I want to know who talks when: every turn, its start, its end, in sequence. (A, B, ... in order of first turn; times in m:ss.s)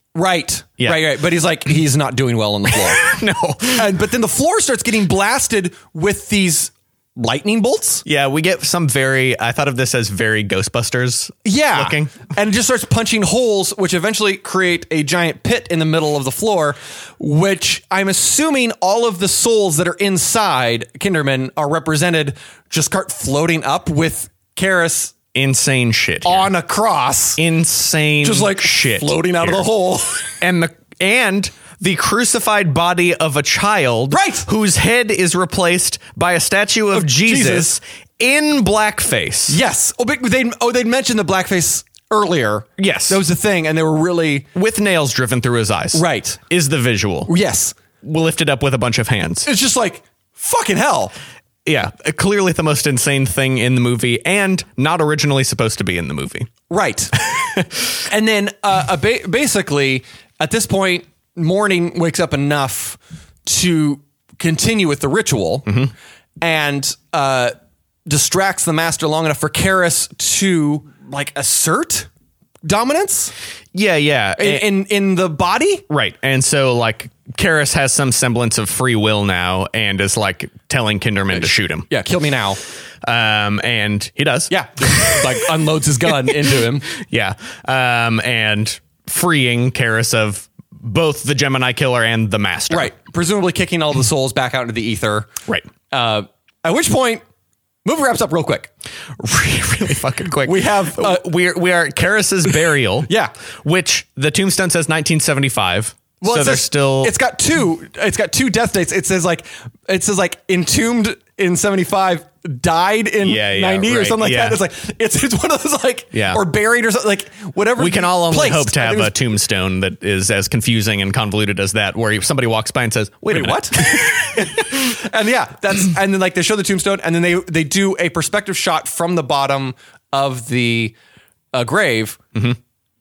0:00.1-0:03.1 A
0:02.9-0:03.9 B
0:03.7-0:08.0 A
0:08.0-0:12.1 B
0:11.4-0:25.1 A
0:25.3-0:26.5 B
0:26.2-0:27.4 A
0:27.4-0:29.6 B
0:28.2-0:30.3 A
0:30.4-0:39.6 B
0:34.1-0:34.5 A
0:36.9-0:37.7 A
0:39.5-0:44.5 A
0:42.8-0:43.2 B
0:44.5-0:47.3 B
0:45.9-0:46.4 A
0:47.3-0:47.7 A
0:48.0-0:49.5 B
0:49.4-0:51.1 A
0:51.6-0:56.5 B
0:56.7-0:57.1 A
0:57.2-0:57.8 B
0:58.0-1:05.8 A
1:06.4-1:07.5 A
1:08.1-1:12.1 A
1:12.6-1:13.3 A
1:13.7-1:14.7 B
1:14.4-1:15.8 A
1:15.9-1:21.9 B
1:21.3-1:22.6 A
1:23.0-1:25.5 B
1:24.5-1:26.9 A
1:26.2-1:32.9 B
1:32.7-1:35.3 A
1:35.9-1:37.2 A
1:37.8-1:38.7 A
1:39.2-1:43.1 B
1:40.4-1:41.3 A
1:43.1-1:43.3 A
1:43.6-1:47.1 B
1:46.2-1:59.1 A
1:53.2-1:54.6 B
1:56.1-1:56.4 B
1:57.8-2:04.8 B
2:03.3-2:10.9 A
2:11.5-2:12.2 A